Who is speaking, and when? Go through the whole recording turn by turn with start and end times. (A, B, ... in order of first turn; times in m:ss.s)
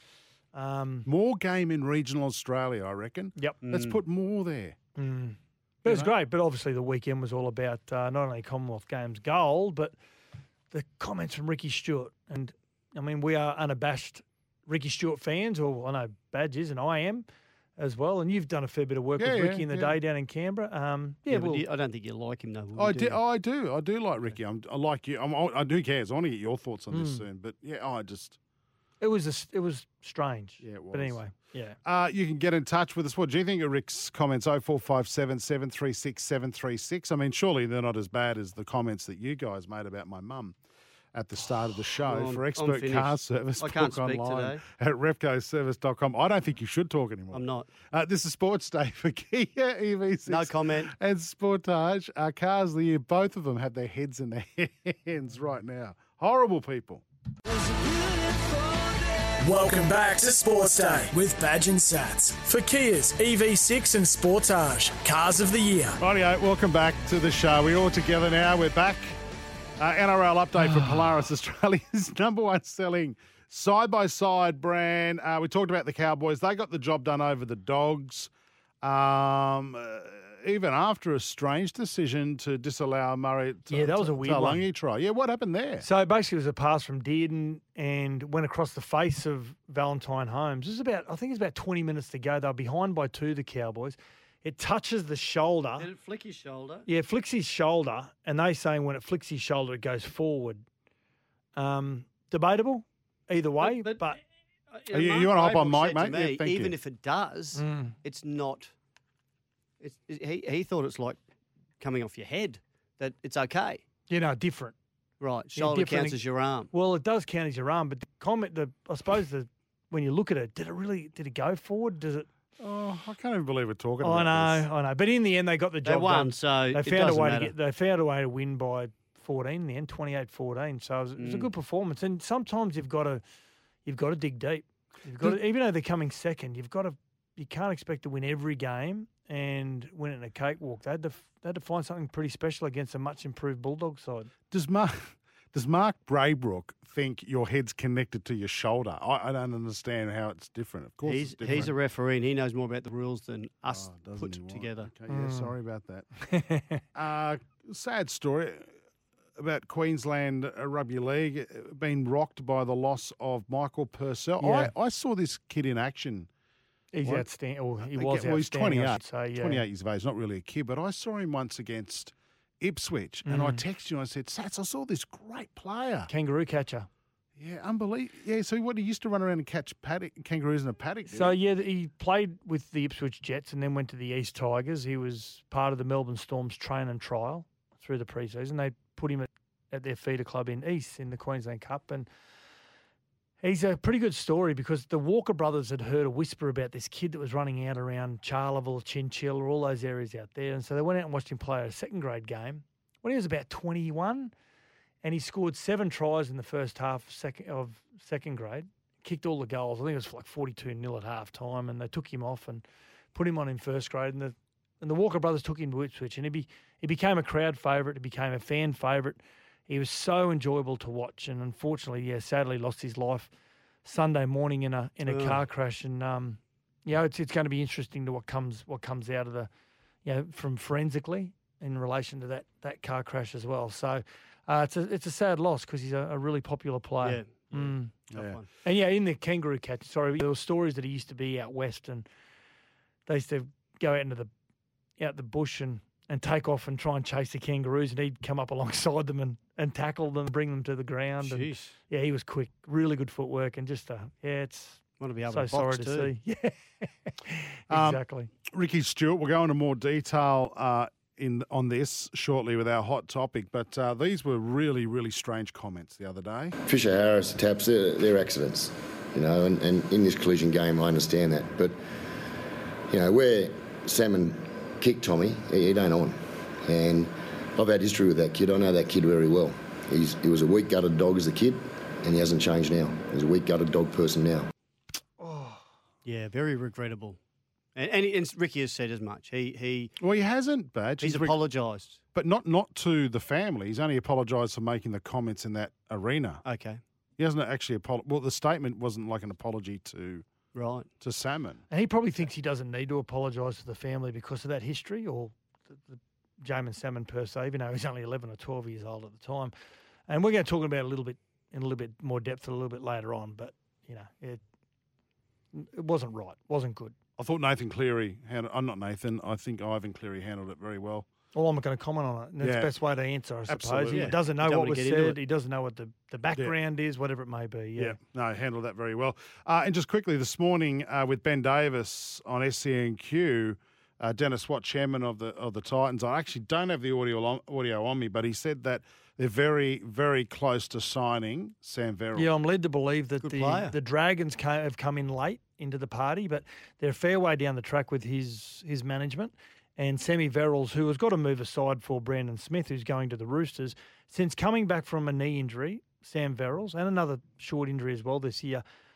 0:00.5-0:01.1 A
0:01.0-0:04.8 B
0:03.6-0:04.0 C
0:05.0-0:09.9 A
0:05.8-0:06.1 B
0:10.7-0:17.2 A
0:17.8-0:21.6 A
0:19.2-0:20.0 B
0:21.3-0:23.2 C
0:22.8-0:28.4 B
0:26.9-0:27.2 A
0:29.0-0:31.8 A
0:30.6-0:31.2 B
0:31.8-0:40.6 B
0:41.1-0:57.0 B
0:42.0-0:44.6 C
0:47.3-0:47.7 C
0:50.3-0:50.9 C
0:59.4-1:06.0 D
1:06.0-1:09.2 B
1:09.8-1:18.3 B
1:18.8-1:25.9 B
1:23.7-1:24.6 A
1:25.8-1:35.9 A
1:35.8-1:36.9 C
1:36.9-1:40.6 A
1:41.6-1:44.2 A
1:43.6-1:44.0 C
1:44.7-1:48.7 C
1:44.9-1:46.7 B
1:47.6-1:47.9 A
1:49.8-1:51.2 C
1:51.8-1:53.8 C
1:54.1-1:54.7 A
1:55.2-1:56.7 C
1:55.5-1:56.2 A
1:56.7-2:02.3 A
2:02.6-2:04.7 B
2:04.0-2:13.2 A
2:05.8-2:07.5 C
2:11.2-2:11.5 C
2:13.8-2:24.3 A
2:24.5-2:31.7 B
2:31.0-2:34.9 C
2:33.7-2:36.0 B
2:35.1-2:35.5 A
2:36.3-2:36.8 A
2:36.9-2:38.7 B
2:39.4-2:46.3 B
2:44.4-2:44.7 A
2:46.9-2:49.6 A
2:47.0-2:47.3 B
2:47.9-2:56.1 B
2:53.2-2:53.6 A
2:56.1-2:56.9 A
2:57.4-3:01.4 B
3:01.1-3:12.1 A
3:13.4-3:24.3 A
3:25.0-3:43.3 A
3:43.8-3:49.5 A
3:45.0-3:45.4 C
3:50.0-3:57.9 A
3:57.0-3:58.5 C
3:58.6-4:02.0 A
4:03.1-4:04.3 A
4:05.0-4:18.3 A
4:11.2-4:11.7 C
4:15.0-4:16.1 C
4:17.7-4:26.6 B
4:26.6-4:31.8 E
4:32.9-4:44.5 E
4:45.2-4:45.6 A
4:46.0-4:47.2 C
4:47.7-4:49.9 C
4:50.0-4:51.4 B
4:51.0-4:52.0 C
4:52.1-4:56.4 B
4:56.4-4:56.8 C
4:57.2-5:00.2 B
5:00.5-5:00.9 C
5:01.0-5:01.6 B
5:01.7-5:09.5 A
5:10.1-5:14.4 A
5:15.5-5:16.9 A
5:17.2-5:21.0 B
5:21.3-5:28.0 A
5:22.4-5:22.7 B
5:23.5-5:24.2 B
5:23.9-5:25.2 C
5:27.8-5:42.3 B
5:42.1-5:58.6 A
5:43.2-5:43.7 C